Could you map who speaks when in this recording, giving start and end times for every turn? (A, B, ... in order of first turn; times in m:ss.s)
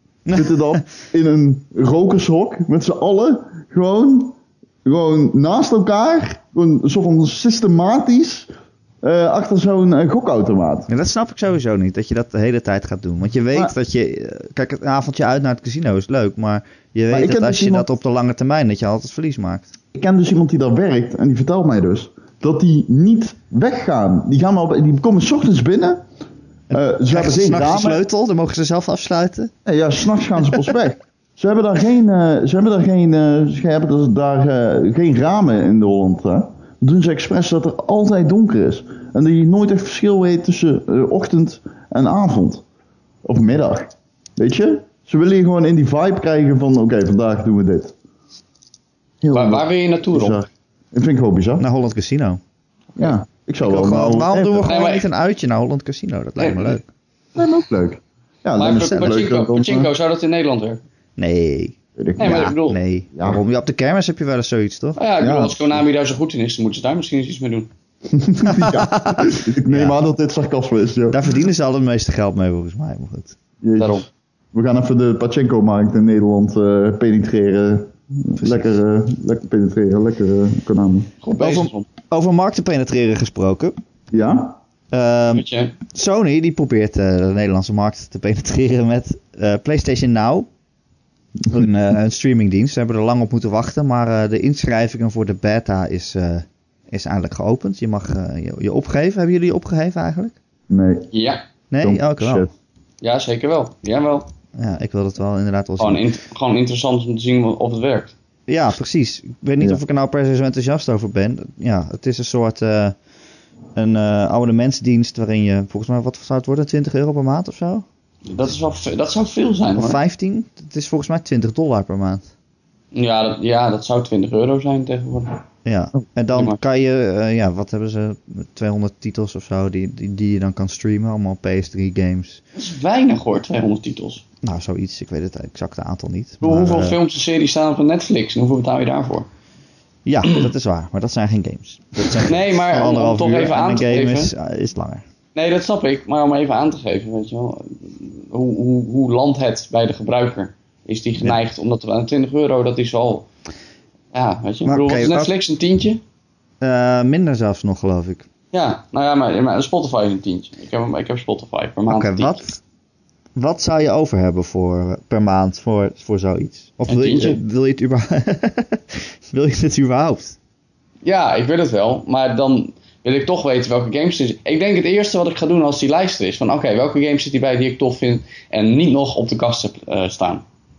0:00.3-0:00.8 A
0:00.3-0:08.5 B
0:09.0-0:10.9 B
0:10.9-0:19.7 A
0:17.1-0:17.9 B
0:19.9-0:26.0 B
0:26.7-0:29.5 A
0:26.7-0:28.0 B
0:29.7-0:42.6 B
0:43.2-0:47.9 B
0:49.2-0:51.6 B
0:49.3-0:50.4 C
0:51.6-0:52.4 A
0:53.0-0:54.7 B
0:53.6-0:56.9 A
0:54.7-0:55.1 C
0:56.4-0:56.8 C
0:57.4-0:59.9 B
0:58.6-1:00.8 C
0:58.7-0:59.1 A
1:01.2-1:05.0 A
1:02.0-1:02.5 B
1:02.2-1:02.8 C
1:03.2-1:03.4 B
1:05.0-1:07.7 C
1:05.2-1:05.6 B
1:08.1-1:11.3 B
1:08.4-1:10.0 A
1:11.1-1:13.4 A
1:13.6-1:21.1 B
1:13.8-1:14.0 C
1:18.4-1:18.7 A
1:21.2-1:21.9 C
1:21.4-1:23.8 A
1:24.1-1:24.6 B
1:24.9-1:30.5 A
1:25.3-1:25.8 C
1:31.5-1:40.4 A
1:40.7-1:41.1 B
1:41.1-1:41.4 C
1:41.7-1:42.5 A
1:41.8-1:42.5 B
1:43.0-1:44.3 C
1:44.6-1:46.0 A
1:45.8-1:48.1 C
1:48.5-1:53.0 A
1:53.8-1:57.8 A
1:58.3-2:00.0 C
1:59.8-2:02.3 A
2:02.9-2:05.4 C
2:05.6-2:12.4 A
2:06.3-2:06.6 C
2:12.6-2:14.2 C
2:14.4-2:17.0 A
2:16.4-2:19.3 C
2:20.0-2:25.0 A
2:22.2-2:24.3 C
2:25.4-2:33.3 C
2:34.1-2:36.0 C
2:34.6-2:35.3 A
2:36.6-2:38.3 A
2:38.5-2:42.4 C
2:41.9-2:42.6 A
2:43.4-2:50.4 A
2:46.9-2:47.4 C
2:51.0-3:00.4 C